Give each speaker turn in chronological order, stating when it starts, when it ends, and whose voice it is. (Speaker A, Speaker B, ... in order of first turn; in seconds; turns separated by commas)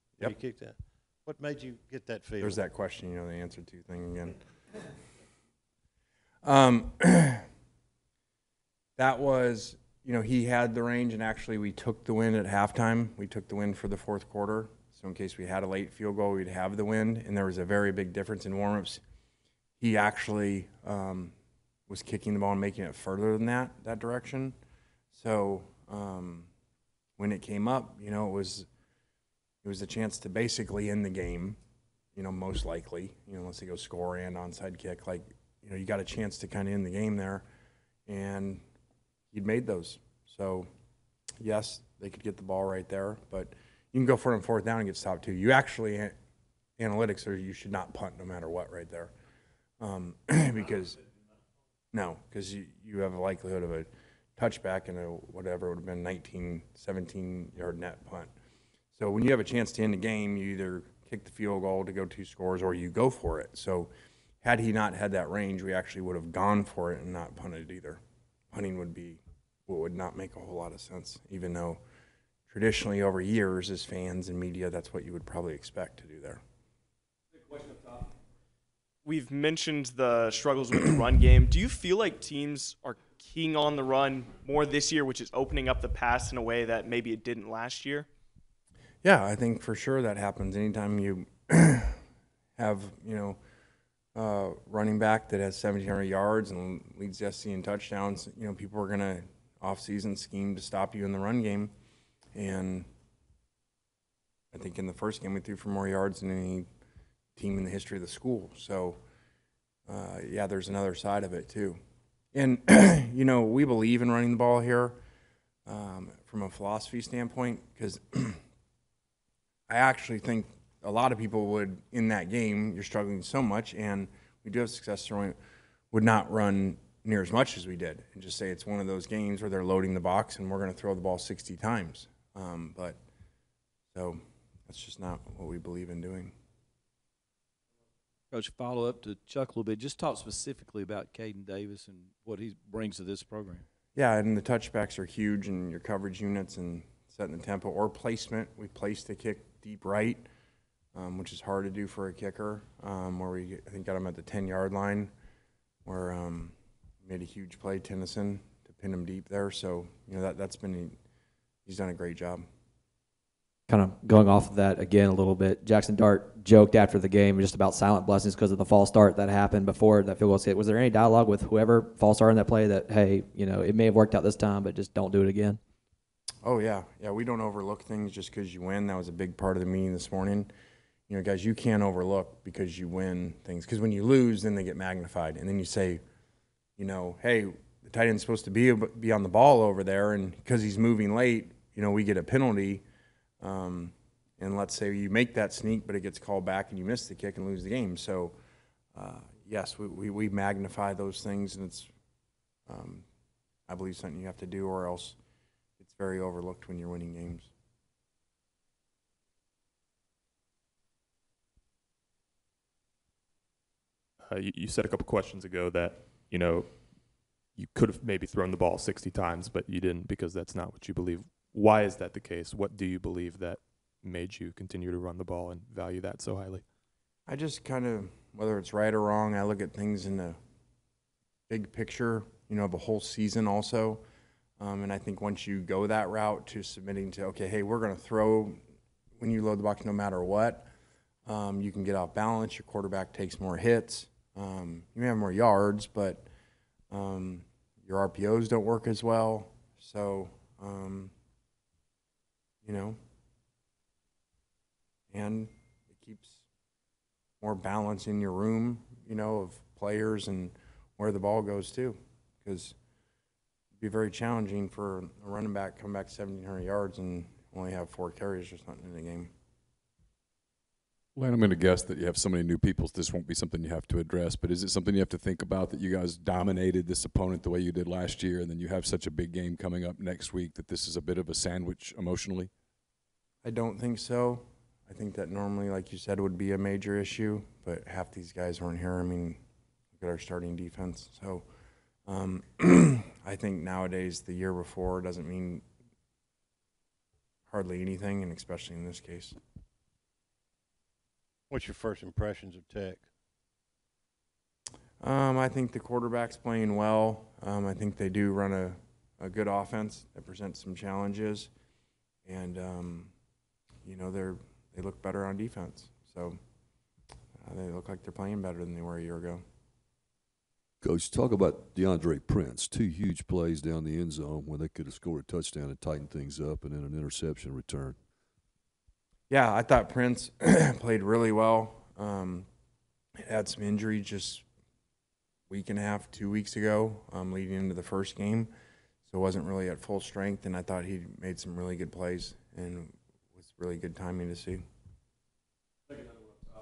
Speaker A: 0.2-2.6, Speaker B: 2.4-4.4, Speaker B: 6.4-7.5, Speaker B: 9.0-19.0, Speaker B: 19.8-21.3, Speaker B: 21.9-24.6, Speaker B: 25.1-26.5, Speaker B: 27.2-28.7, Speaker B: 29.6-31.6, Speaker B: 32.1-37.4, Speaker B: 38.1-38.6, Speaker B: 39.3-40.7, Speaker B: 41.4-46.1, Speaker B: 46.8-49.1, Speaker B: 49.8-51.0, Speaker B: 51.9-58.3, Speaker B: 58.9-63.9, Speaker B: 64.4-68.0, Speaker B: 68.5-71.8, Speaker B: 72.5-76.4, Speaker C: 79.0-88.1, Speaker B: 89.0-92.0, Speaker B: 92.6-93.4, Speaker B: 94.2-101.7, Speaker B: 102.3-102.9, Speaker B: 104.5-106.7, Speaker B: 107.4-109.0, Speaker B: 109.9-111.8, Speaker B: 112.3-115.0, Speaker B: 115.7-118.4, Speaker B: 119.7-125.4, Speaker B: 125.9-133.0, Speaker B: 133.9-136.3, Speaker D: 138.3-143.6, Speaker B: 143.9-150.3, Speaker B: 150.9-155.1, Speaker B: 155.8-161.0, Speaker B: 161.7-162.4, Speaker E: 163.7-175.6, Speaker B: 176.4-180.5, Speaker B: 181.1-186.0, Speaker B: 186.8-192.8, Speaker B: 193.4-198.3, Speaker B: 198.9-201.9, Speaker B: 202.7-203.1, Speaker B: 203.7-205.2, Speaker B: 205.8-207.5, Speaker F: 214.2-226.7, Speaker B: 227.3-230.4, Speaker B: 231.5-234.0, Speaker B: 234.6-238.6, Speaker B: 239.2-240.7, Speaker B: 241.3-246.3, Speaker B: 246.9-251.1, Speaker B: 252.6-253.0, Speaker B: 255.1-256.4, Speaker B: 257.4-262.8, Speaker B: 263.8-269.3, Speaker G: 271.1-282.5, Speaker B: 283.4-289.4, Speaker B: 290.0-291.5, Speaker B: 292.1-295.6, Speaker B: 297.5-299.4, Speaker A: 301.5-303.1, Speaker B: 305.0-311.5, Speaker B: 312.2-313.1, Speaker B: 313.9-316.4, Speaker B: 317.4-319.4, Speaker H: 320.8-328.0, Speaker B: 329.3-332.5, Speaker B: 333.2-334.4, Speaker B: 335.5-338.5, Speaker B: 339.1-344.6